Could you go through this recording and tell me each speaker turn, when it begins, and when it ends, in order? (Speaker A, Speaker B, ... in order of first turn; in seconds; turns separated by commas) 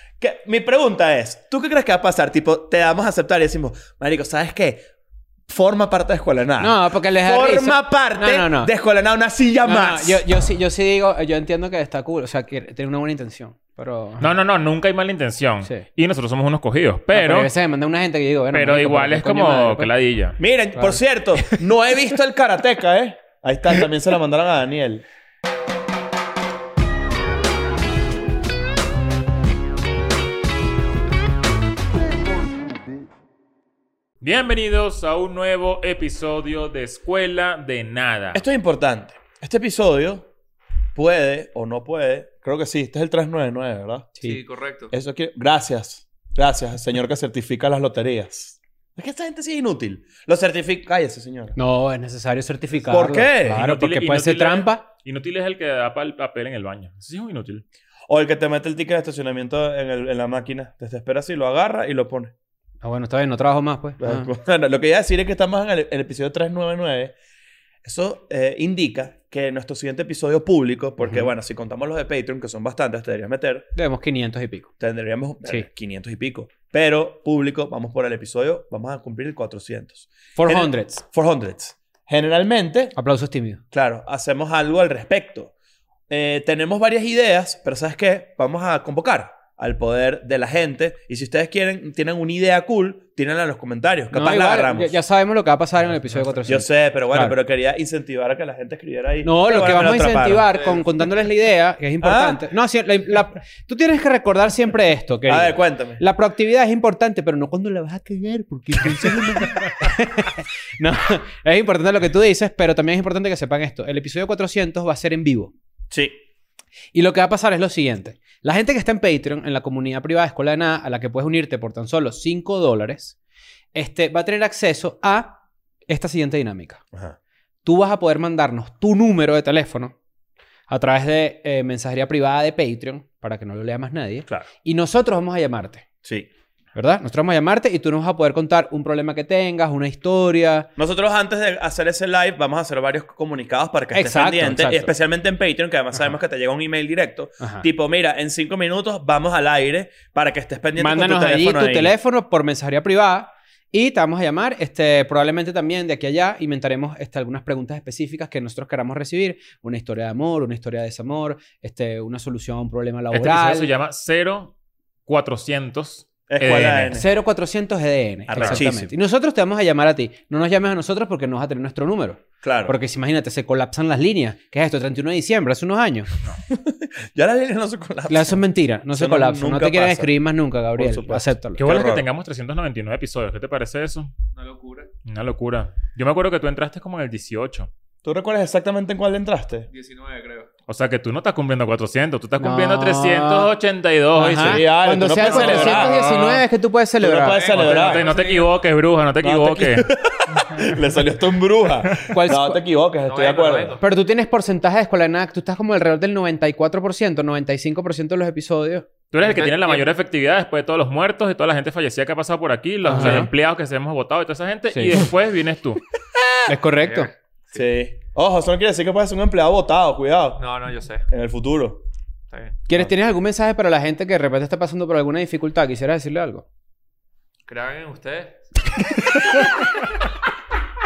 Speaker A: 0.2-4.8, Speaker A: 5.5-10.2, Speaker B: 6.6-8.7, Speaker B: 9.6-14.3, Speaker C: 14.2-17.5, Speaker B: 17.1-19.9, Speaker C: 18.5-20.4, Speaker A: 20.4-25.0, Speaker C: 34.2-38.4, Speaker A: 38.3-40.3, Speaker A: 41.0-44.1, Speaker D: 44.2-44.9, Speaker A: 44.9-51.6, Speaker B: 51.6-54.8, Speaker A: 52.8-53.6, Speaker C: 53.5-57.6, Speaker A: 58.1-62.3, Speaker B: 62.8-64.3, Speaker A: 64.0-67.2, Speaker A: 67.8-73.7, Speaker B: 71.0-71.3, Speaker B: 73.8-74.7, Speaker A: 74.8-83.0, Speaker B: 80.4-81.0, Speaker B: 83.0-83.6, Speaker A: 83.7-85.5, Speaker A: 86.1-95.0, Speaker B: 94.1-97.4, Speaker A: 96.5-100.5, Speaker B: 99.2-115.5, Speaker A: 102.0-102.4, Speaker A: 105.3-106.0, Speaker A: 115.9-116.2, Speaker B: 116.9-123.2, Speaker B: 123.7-126.8, Speaker B: 127.6-129.9, Speaker B: 130.7-135.8, Speaker B: 136.8-140.7, Speaker A: 140.8-152.0, Speaker B: 143.9-144.9, Speaker B: 147.4-147.7, Speaker B: 150.8-163.7, Speaker C: 163.1-164.5, Speaker C: 165.1-167.0, Speaker A: 166.3-167.1, Speaker B: 166.9-176.1, Speaker A: 168.3-168.9, Speaker C: 168.4-168.6, Speaker A: 172.4-172.8, Speaker A: 176.5-180.1, Speaker B: 178.1-181.6, Speaker A: 180.8-182.1, Speaker C: 181.6-184.1, Speaker D: 184.3-184.9, Speaker C: 185.1-187.7, Speaker A: 188.0-189.7, Speaker D: 189.7-190.5, Speaker C: 190.7-194.7, Speaker B: 192.4-193.5, Speaker B: 194.2-197.4, Speaker A: 194.4-195.9, Speaker C: 195.2-196.4, Speaker A: 197.0-198.1, Speaker D: 197.3-198.5, Speaker C: 197.5-199.9, Speaker A: 199.2-203.8, Speaker B: 202.0-202.6, Speaker D: 203.1-203.8, Speaker B: 203.8-208.9, Speaker C: 209.1-215.8, Speaker D: 209.2-209.9, Speaker B: 212.8-213.3, Speaker B: 214.7-215.0, Speaker B: 216.5-217.1, Speaker D: 216.8-217.7, Speaker A: 217.5-220.4, Speaker D: 220.4-221.1, Speaker A: 221.1-221.8, Speaker D: 222.3-222.6, Speaker B: 222.7-226.4, Speaker D: 227.5-228.9